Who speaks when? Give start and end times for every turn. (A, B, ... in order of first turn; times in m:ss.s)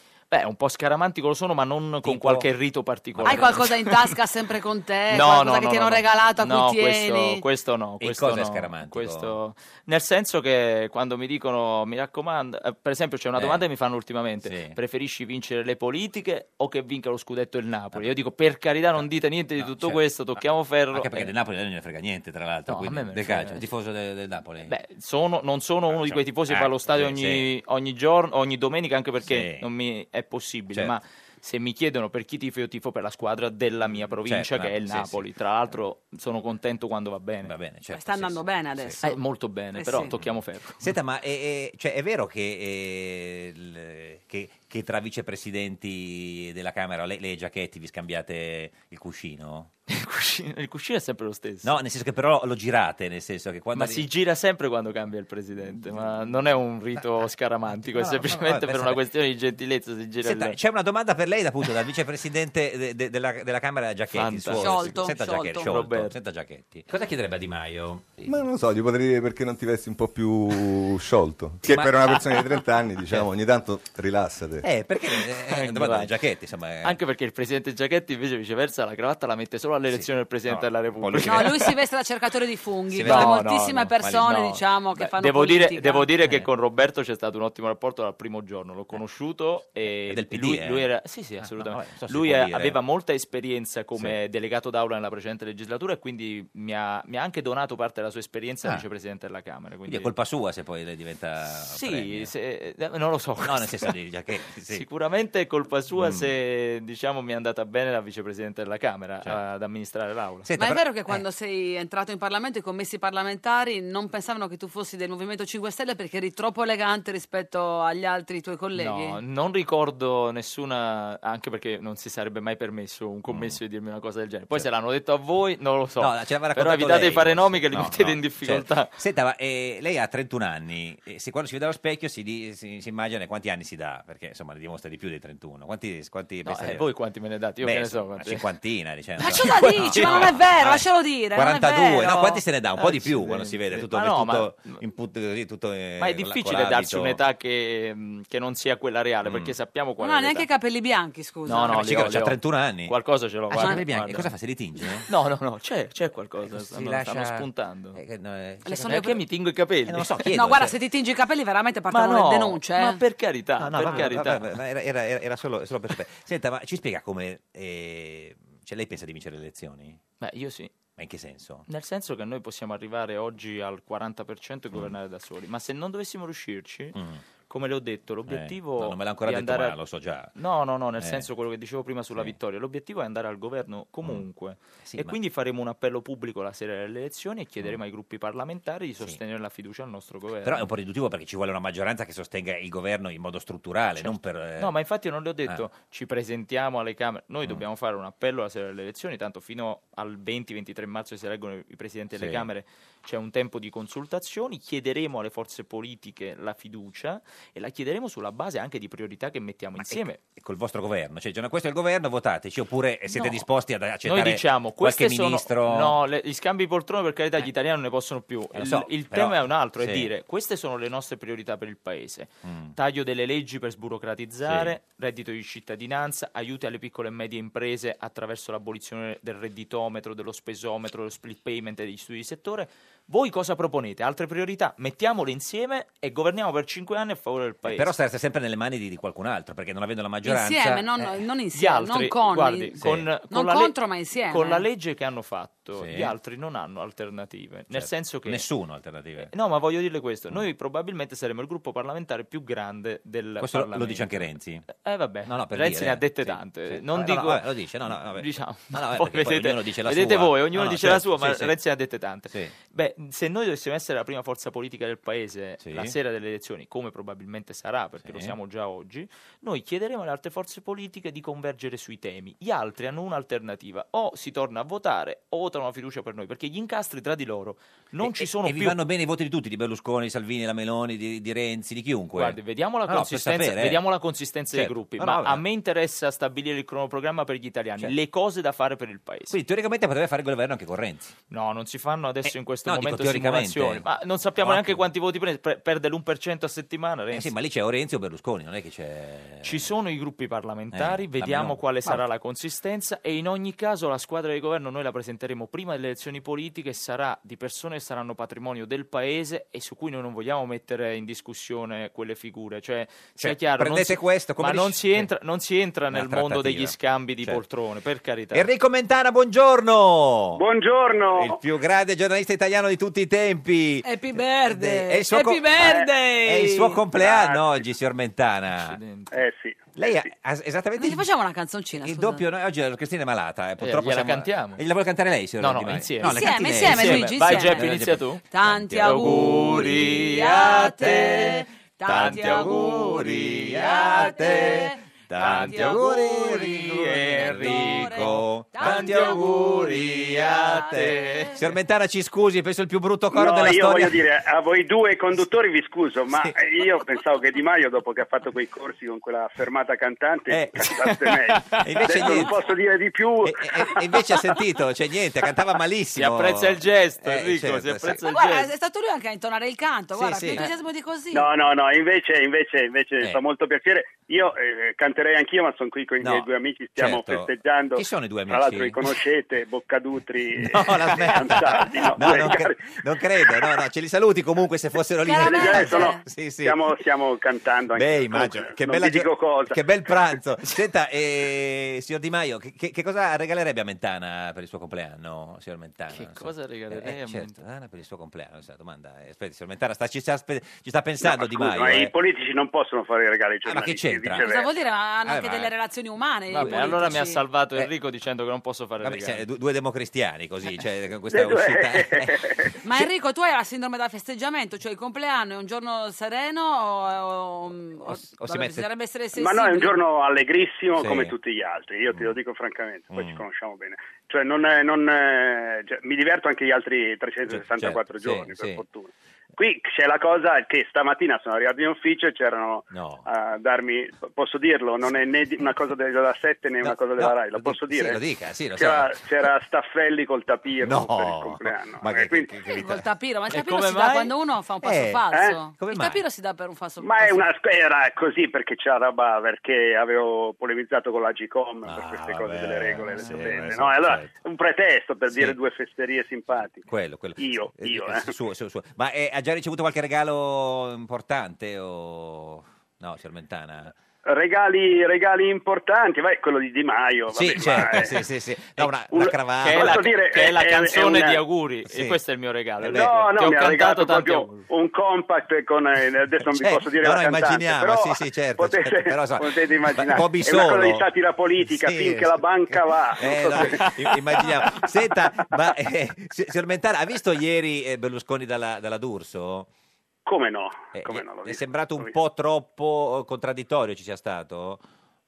0:00.3-0:04.1 A
0:02.0-0:02.5 B
0:03.1-0:03.6 B
0:03.2-0:07.4 C
0:05.1-0:21.3 A
0:08.0-0:09.4 B
0:13.4-0:13.6 B
0:14.4-0:14.8 B
0:19.6-0:20.0 B
0:20.9-0:24.7 B
0:22.7-0:23.6 A
0:24.6-0:37.5 A
0:25.9-0:27.5 B
0:29.2-0:29.6 B
0:34.0-0:35.2 B
0:37.4-0:39.0 B
0:37.9-0:39.2 C
0:39.0-0:40.9 A
0:39.7-0:40.1 C
0:39.9-0:49.7 B
0:49.9-0:51.7 A
0:51.6-0:54.1 B
0:53.7-1:00.6 A
0:55.9-0:56.3 B
0:57.0-0:59.0 B
1:00.2-1:08.3 B
1:04.1-1:06.2 A
1:04.6-1:05.7 C
1:08.3-1:14.6 D
1:11.6-1:12.5 B
1:14.6-1:17.0 B
1:15.2-1:16.1 A
1:16.8-1:21.7 A
1:19.9-1:21.7 B
1:21.2-1:26.1 C
1:22.9-1:24.4 B
1:23.0-1:40.1 A
1:30.1-1:30.9 B
1:31.4-1:32.8 B
1:39.9-1:42.3 B
1:41.6-1:43.9 A
1:43.4-1:44.8 B
1:44.7-1:50.5 A
1:46.0-1:46.3 B
1:50.4-1:51.2 B
1:50.6-1:59.2 C
1:58.7-2:08.9 A
2:03.3-2:03.6 B
2:06.0-2:16.9 B
2:16.4-2:18.4 A
2:17.6-2:27.2 B
2:19.2-2:22.3 C
2:19.3-2:20.4 A
2:22.1-2:24.8 A
2:26.0-2:30.5 A
2:29.2-2:29.6 B
2:30.0-2:31.8 C
2:31.4-2:34.3 A
2:31.7-2:33.0 B
2:33.5-2:35.1 B
2:33.5-2:33.8 C
2:35.1-2:38.0 A
2:36.4-2:39.2 B
2:38.6-2:39.2 C
2:38.9-2:40.3 A
2:39.8-2:40.8 B
2:40.3-2:43.0 C
2:41.9-2:44.5 A
2:43.6-2:50.0 B
2:43.8-2:44.1 C
2:50.2-2:50.7 A
2:51.0-2:51.7 B
2:51.7-2:59.8 A
2:57.0-2:57.2 B
2:58.3-3:00.4 B
3:00.4-3:10.7 A
3:01.0-3:01.3 B
3:04.8-3:05.2 B
3:10.4-3:14.7 B
3:14.0-3:30.2 A
3:22.2-3:22.5 B
3:29.8-3:36.0 B
3:34.0-3:57.9 A
3:38.6-3:40.1 B
3:42.4-3:42.7 B
3:44.4-3:44.7 B
3:57.7-4:00.9 B
4:00.2-4:02.8 C
4:01.5-4:08.4 A
4:02.8-4:03.1 B
4:03.3-4:04.7 C
4:05.8-4:06.1 B
4:07.7-4:09.3 B
4:09.2-4:38.8 A
4:13.4-4:14.7 B
4:15.3-4:21.5 B
4:25.6-4:25.9 B
4:28.0-4:28.4 B
4:38.0-4:43.8 B
4:42.1-4:49.4 A
4:44.5-4:45.4 B
4:49.3-4:51.2 B
4:51.3-4:57.3 A
4:52.3-4:53.9 B
4:54.4-4:54.8 B
4:57.1-4:59.7 B
4:59.4-5:18.5 A
5:00.7-5:02.0 B
5:13.2-5:15.1 B
5:15.9-5:17.4 B
5:18.3-5:20.4 B
5:20.4-5:21.4 E
5:21.0-5:28.8 B
5:23.8-5:26.8 C
5:25.6-5:25.9 E
5:26.9-5:27.6 E
5:28.5-5:29.2 A
5:29.1-5:29.7 E
5:29.8-5:31.1 B
5:30.8-5:32.2 C
5:31.8-5:54.0 B
5:33.6-5:34.6 A
5:35.4-5:38.2 A
5:36.0-5:37.7 C
5:38.3-5:49.4 C
5:38.8-5:40.7 A
5:41.9-5:44.1 A
5:45.2-5:51.4 A
5:50.3-5:51.4 C
5:53.1-6:03.4 E
5:56.1-5:56.4 B
6:00.3-6:00.7 B
6:00.6-6:02.3 A
6:01.5-6:02.4 B
6:03.2-6:08.0 B
6:06.0-6:08.5 A
6:08.1-6:11.3 C
6:10.0-6:10.4 B
6:11.1-6:23.6 E
6:16.0-6:18.9 B
6:20.4-6:26.7 B
6:25.0-6:26.0 C
6:25.2-6:29.6 E
6:27.7-6:41.9 B
6:35.9-6:37.3 A
6:41.0-6:44.5 E
6:43.4-6:44.3 B
6:44.2-6:47.2 C
6:45.0-6:45.5 B
6:46.3-6:49.2 A
6:46.3-6:47.7 B
6:48.8-6:52.3 B
6:51.1-6:52.5 E
6:52.6-6:59.8 C
6:57.9-6:58.7 B
6:59.1-7:18.0 E
7:00.8-7:01.1 B
7:02.9-7:03.2 B
7:07.3-7:08.6 B
7:12.7-7:13.0 B
7:16.6-7:19.1 B
7:18.6-7:22.3 E
7:20.6-7:22.9 B
7:22.4-7:27.3 C
7:23.3-7:24.1 A
7:24.6-7:26.0 B
7:26.8-7:36.7 E
7:31.6-7:34.2 B
7:36.5-7:43.7 B
7:37.2-7:38.1 E
7:44.0-7:48.0 E
7:47.1-7:49.9 B
7:48.6-7:51.2 E
7:49.3-7:54.4 A
7:51.7-7:52.0 B
7:52.6-7:53.0 B
7:52.6-8:03.7 E
7:56.4-8:00.9 B
8:01.4-8:09.5 B
8:03.6-8:04.0 A
8:10.0-8:11.9 E
8:10.7-8:14.6 B